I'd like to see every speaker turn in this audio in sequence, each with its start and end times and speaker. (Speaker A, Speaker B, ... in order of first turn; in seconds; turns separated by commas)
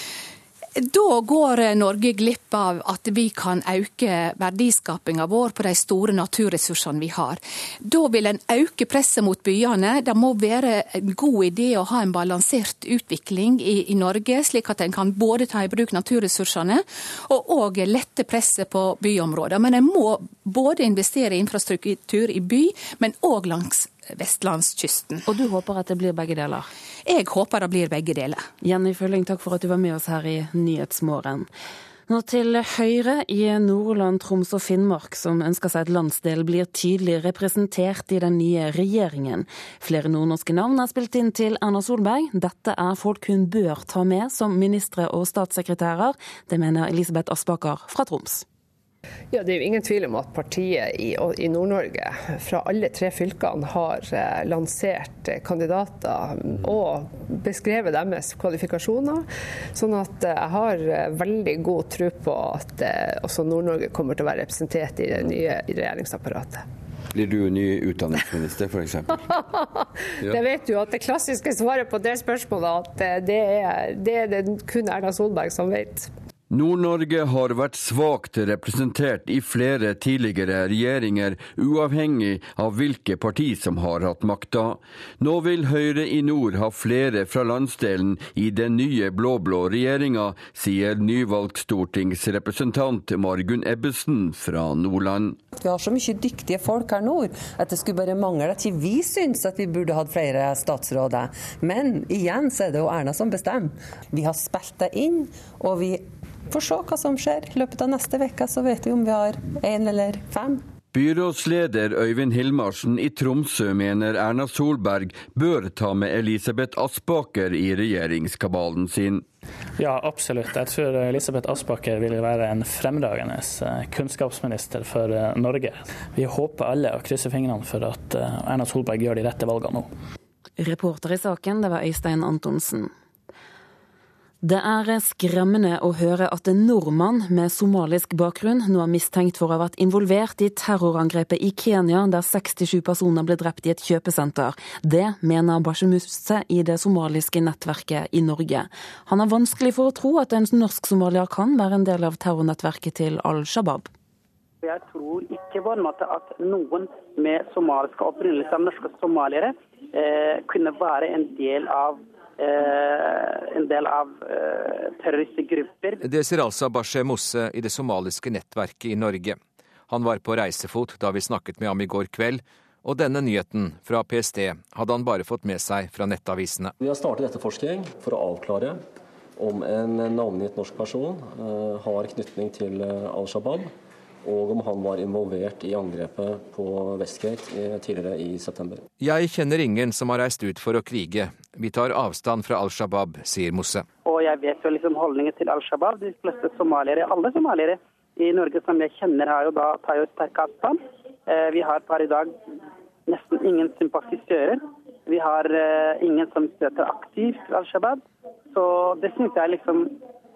Speaker A: 0.8-25.2, Speaker B: 25.3-26.7, Speaker A: 27.1-28.5, Speaker B: 28.6-31.5, Speaker B: 32.1-48.5, Speaker C: 49.3-66.6, Speaker D: 67.1-69.1, Speaker C: 69.3-76.1, Speaker D: 76.5-95.4, Speaker E: 95.6-110.6, Speaker D: 110.9-119.2, Speaker F: 119.8-129.9, Speaker B: 130.6-132.9, Speaker B: 134.4-153.9, Speaker G: 154.6-166.0, Speaker H: 166.1-169.4, Speaker H: 169.9-176.7, Speaker I: 176.8-178.8, Speaker I: 179.4-183.7, Speaker I: 184.2-188.8, Speaker H: 189.0-193.8, Speaker G: 194.1-202.4, Speaker G: 203.1-208.0, Speaker G: 208.5-209.9